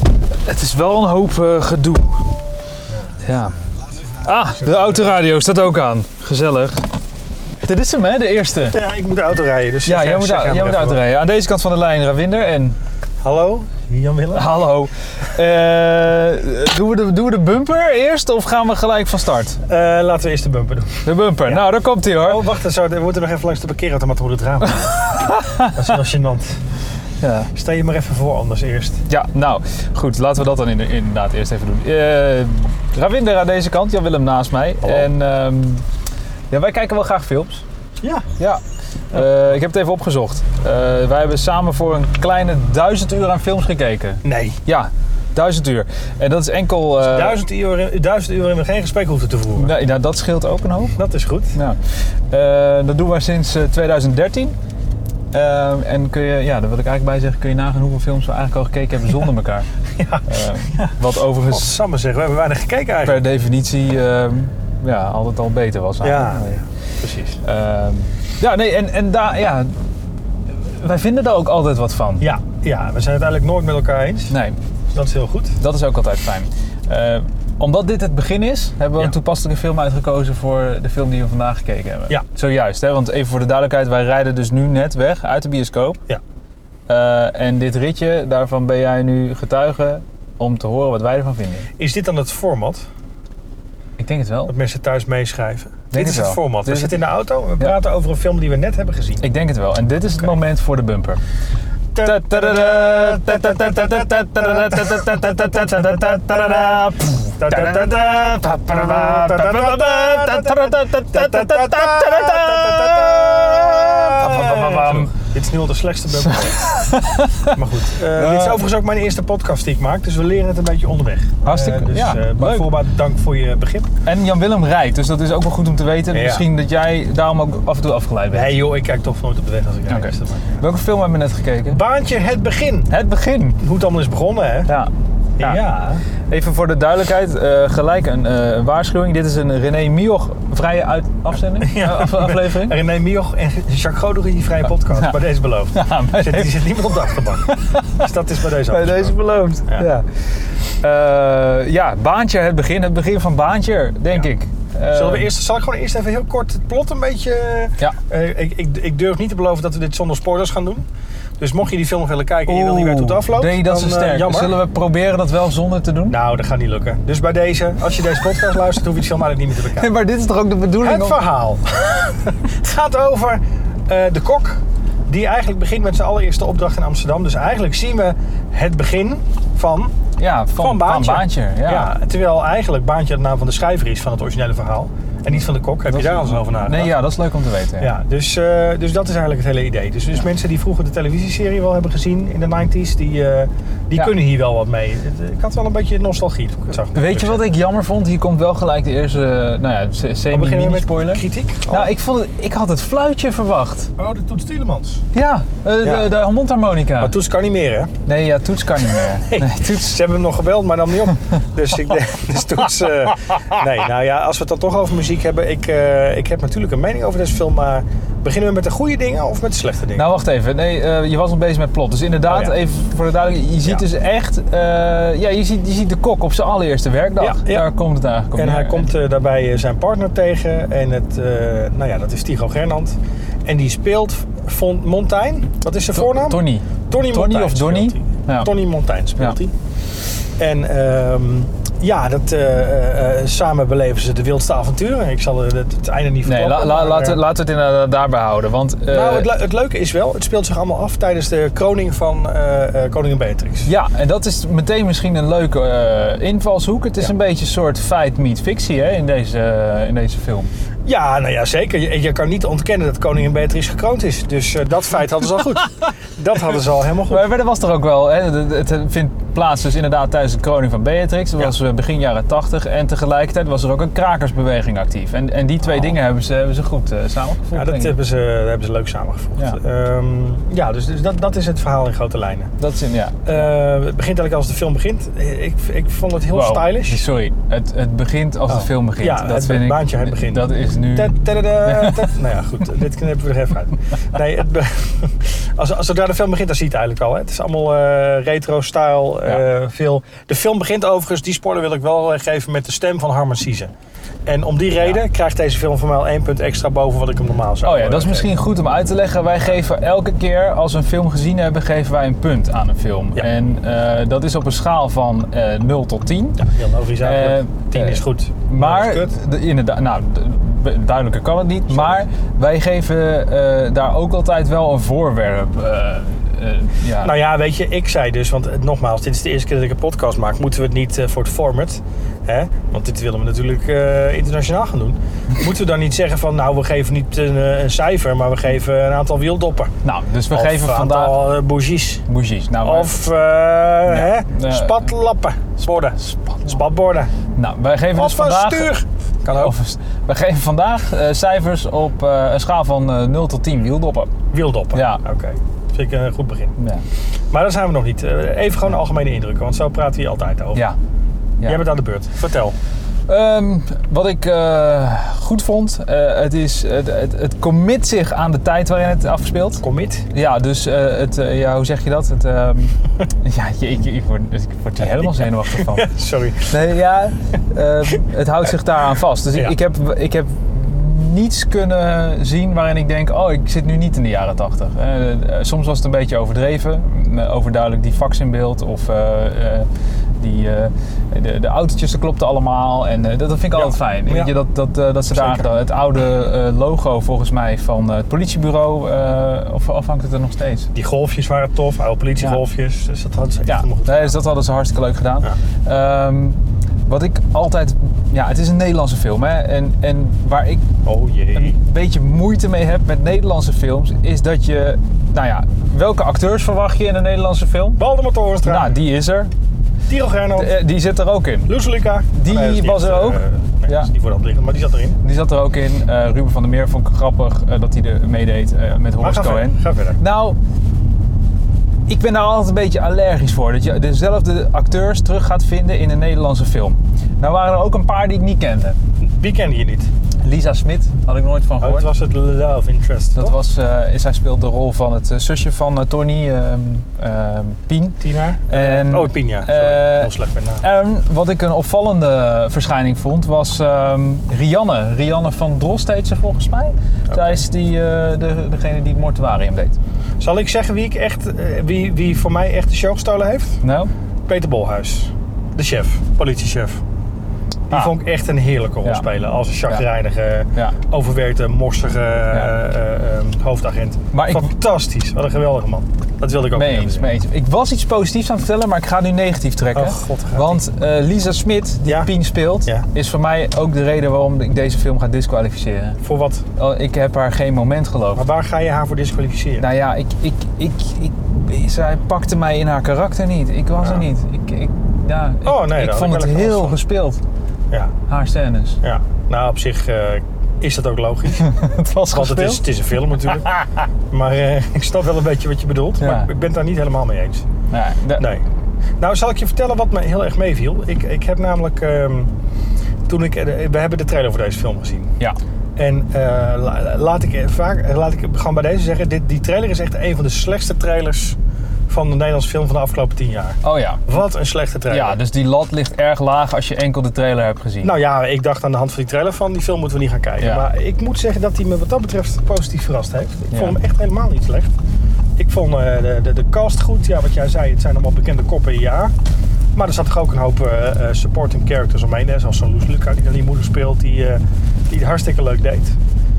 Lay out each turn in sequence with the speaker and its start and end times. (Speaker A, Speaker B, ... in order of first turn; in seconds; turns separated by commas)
Speaker A: 0.5-2.3, Speaker A: 3.2-6.8, Speaker A: 7.6-8.8, Speaker B: 8.7-11.0, Speaker A: 9.8-12.8, Speaker B: 13.2-14.5, Speaker A: 14.3-19.6, Speaker B: 19.7-21.7, Speaker A: 21.1-22.4, Speaker B: 22.2-25.0, Speaker A: 24.8-25.8, Speaker B: 25.7-26.6, Speaker A: 27.2-27.5, Speaker B: 27.5-29.0, Speaker A: 29.1-35.8, Speaker B: 34.8-35.1, Speaker A: 36.5-37.6, Speaker A: 39.1-47.4, Speaker B: 44.2-44.6, Speaker B: 47.0-49.7, Speaker A: 49.6-51.0, Speaker B: 51.0-51.6, Speaker A: 51.5-54.5, Speaker A: 55.3-59.7, Speaker B: 60.0-60.9, Speaker A: 60.2-61.8, Speaker B: 61.5-63.2, Speaker A: 63.0-66.6, Speaker B: 66.0-67.4, Speaker A: 67.4-69.8, Speaker A: 70.5-72.3, Speaker B: 72.2-74.4, Speaker A: 74.3-74.6, Speaker B: 74.9-75.6, Speaker A: 75.6-86.0, Speaker A: 86.9-91.7, Speaker B: 91.8-92.8, Speaker A: 94.0-94.5, Speaker B: 94.5-99.2, Speaker A: 95.9-97.0, Speaker A: 99.2-101.2, Speaker B: 101.9-105.1, Speaker A: 102.0-115.1, Speaker B: 107.4-116.8, Speaker A: 116.2-117.5, Speaker B: 117.5-123.9, Speaker A: 118.1-118.7, Speaker A: 121.4-122.7, Speaker A: 124.0-128.6, Speaker B: 126.1-126.5, Speaker B: 128.3-130.6, Speaker A: 129.9-131.8, Speaker B: 131.7-132.9, Speaker A: 132.9-133.6, Speaker B: 133.6-134.7, Speaker A: 134.7-135.6, Speaker B: 135.4-136.0, Speaker A: 136.3-142.8, Speaker B: 141.6-149.2, Speaker A: 145.7-146.9, Speaker A: 147.4-148.0, Speaker A: 148.7-150.1, Speaker A: 150.8-155.3, Speaker B: 154.9-160.9, Speaker B: 161.4-164.6, Speaker A: 162.5-166.2, Speaker B: 166.1-169.9, Speaker A: 169.8-171.2, Speaker B: 170.8-179.9, Speaker A: 180.2-181.9, Speaker B: 180.6-187.0, Speaker A: 185.8-187.9, Speaker B: 187.8-197.4, Speaker A: 196.9-203.9, Speaker B: 200.3-201.9, Speaker B: 204.0-205.0, Speaker A: 205.1-207.1, Speaker B: 205.8-206.1, Speaker B: 207.0-207.9, Speaker A: 208.1-209.9, Speaker B: 209.2-220.1, Speaker A: 219.9-228.9, Speaker B: 222.3-222.6, Speaker B: 227.2-227.7, Speaker B: 228.4-239.5, Speaker A: 235.9-238.5, Speaker B: 240.4-247.2, Speaker A: 246.2-249.3, Speaker B: 248.9-253.7, Speaker A: 253.7-260.5, Speaker B: 260.9-267.3, Speaker A: 267.1-278.0, Speaker B: 277.5-282.5, Speaker A: 282.6-283.5, Speaker B: 283.3-287.0, Speaker A: 286.3-292.1, Speaker B: 288.5-303.7, Speaker B: 304.3-308.3, Speaker A: 307.6-316.5, Speaker B: 316.4-319.1, Speaker A: 317.0-327.2, Speaker B: 321.7-322.0, Speaker B: 327.0-339.7, Speaker A: 339.8-341.2, Speaker B: 340.3-342.0, Speaker A: 342.1-343.0, Speaker B: 342.6-347.1, Speaker A: 343.9-344.9, Speaker A: 346.0-346.6, Speaker A: 347.4-348.7, Speaker B: 347.9-349.6, Speaker A: 349.3-354.1, Speaker B: 354.3-356.5, Speaker A: 354.7-355.0, Speaker A: 356.6-356.8, Speaker B: 357.3-360.6, Speaker A: 361.4-361.7, Speaker B: 361.4-362.6, Speaker A: 363.1-375.9, Speaker B: 369.6-370.1, Speaker B: 374.8-376.6, Speaker A: 376.4-389.7, Speaker A: 390.2-400.7, Speaker B: 393.5-394.3, Speaker B: 395.1-395.5, Speaker B: 400.7-404.2, Speaker A: 403.4-410.6, Speaker B: 410.9-411.6, Speaker A: 411.3-417.8, Speaker B: 417.8-418.8, Speaker A: 418.4-419.3, Speaker B: 419.9-420.5, Speaker A: 420.4-421.6, Speaker B: 421.5-425.0, Speaker A: 422.1-423.9, Speaker A: 425.0-430.4, Speaker B: 428.9-430.0, Speaker A: 431.9-438.8, Speaker B: 439.0-439.9, Speaker A: 440.2-441.9, Speaker B: 441.6-443.4, Speaker A: 443.2-459.8, Speaker B: 448.0-450.6, Speaker B: 457.1-457.4, Speaker B: 460.2-463.6, Speaker A: 463.6-463.9, Speaker B: 464.3-466.8, Speaker B: 467.7-477.1, Speaker A: 474.1-474.5, Speaker A: 476.5-486.0, Speaker B: 479.7-480.6, Speaker B: 481.9-482.1, Speaker B: 486.0-486.4, Speaker A: 486.6-488.2, Speaker B: 488.1-489.7, Speaker A: 489.6-497.2, Speaker B: 493.8-494.1, Speaker B: 495.4-496.8, Speaker A: 498.1-498.8, Speaker B: 498.8-501.5, Speaker A: 501.4-502.6, Speaker B: 502.1-503.5, Speaker A: 503.3-503.8, Speaker B: 504.1-507.4, Speaker A: 506.0-506.3, Speaker A: 507.7-508.3, Speaker B: 508.2-508.4, Speaker B: 509.0-512.3, Speaker B: 513.1-515.1, Speaker B: 515.8-521.4, Speaker B: 521.9-525.2, Speaker A: 523.6-524.2, Speaker A: 524.9-527.9, Speaker B: 527.8-534.7, Speaker A: 530.4-530.7, Speaker A: 533.5-533.8, Speaker B: 535.4-539.1, Speaker B: 539.8-546.0